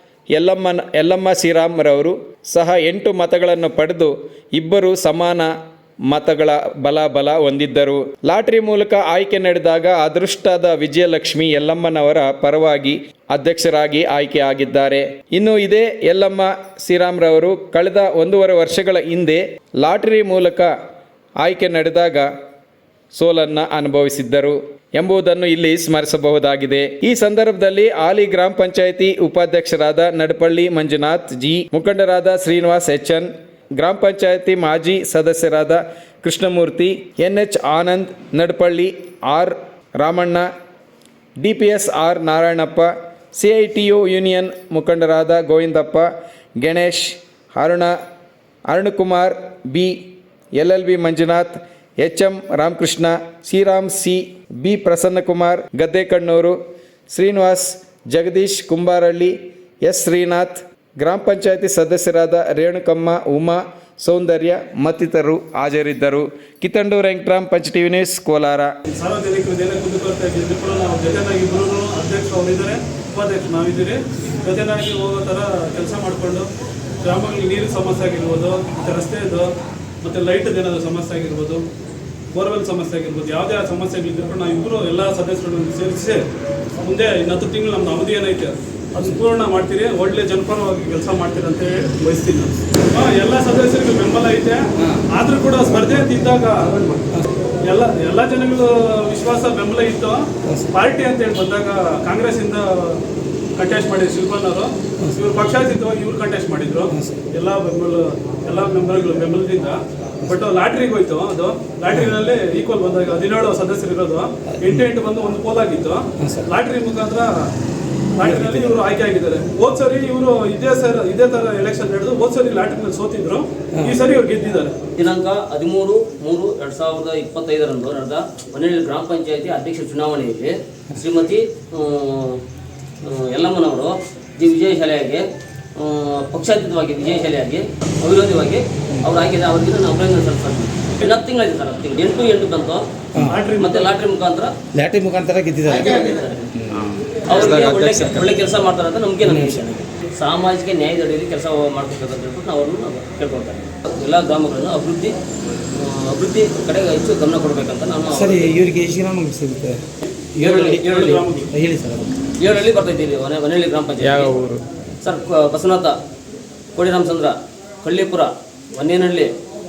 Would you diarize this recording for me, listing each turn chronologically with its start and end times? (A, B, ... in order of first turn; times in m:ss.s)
0:00.4-0:05.5 A
0:06.1-0:20.7 A
0:21.4-0:22.3 A
0:23.2-0:40.5 A
0:41.4-0:47.9 A
0:48.7-0:50.0 A
0:50.6-0:56.6 A
0:57.1-1:08.7 A
1:08.9-1:16.5 B
1:17.0-1:19.5 B
1:20.0-1:21.6 B
1:22.3-1:26.2 B
1:26.8-1:37.0 B
1:36.9-1:37.3 C
1:37.7-1:43.0 B
1:43.6-1:57.5 B
1:46.9-1:47.2 C
1:54.6-1:54.9 C
1:56.2-1:56.4 C
1:58.2-2:04.8 B
1:58.2-1:58.8 C
2:05.0-2:12.4 D
2:13.0-2:22.9 D
2:23.1-2:23.4 C
2:23.2-2:23.9 B
2:23.6-2:24.5 D
2:24.7-2:27.0 C
2:25.7-2:26.5 D
2:27.2-2:35.2 D
2:29.3-2:29.5 C
2:35.7-2:38.6 D
2:38.1-2:39.8 C
2:40.4-2:41.0 C
2:40.4-2:41.2 D
2:40.8-2:41.5 B
2:41.5-2:42.1 C
2:42.4-2:44.4 D
2:44.0-2:44.6 C
2:45.0-2:46.0 D
2:46.8-2:49.3 D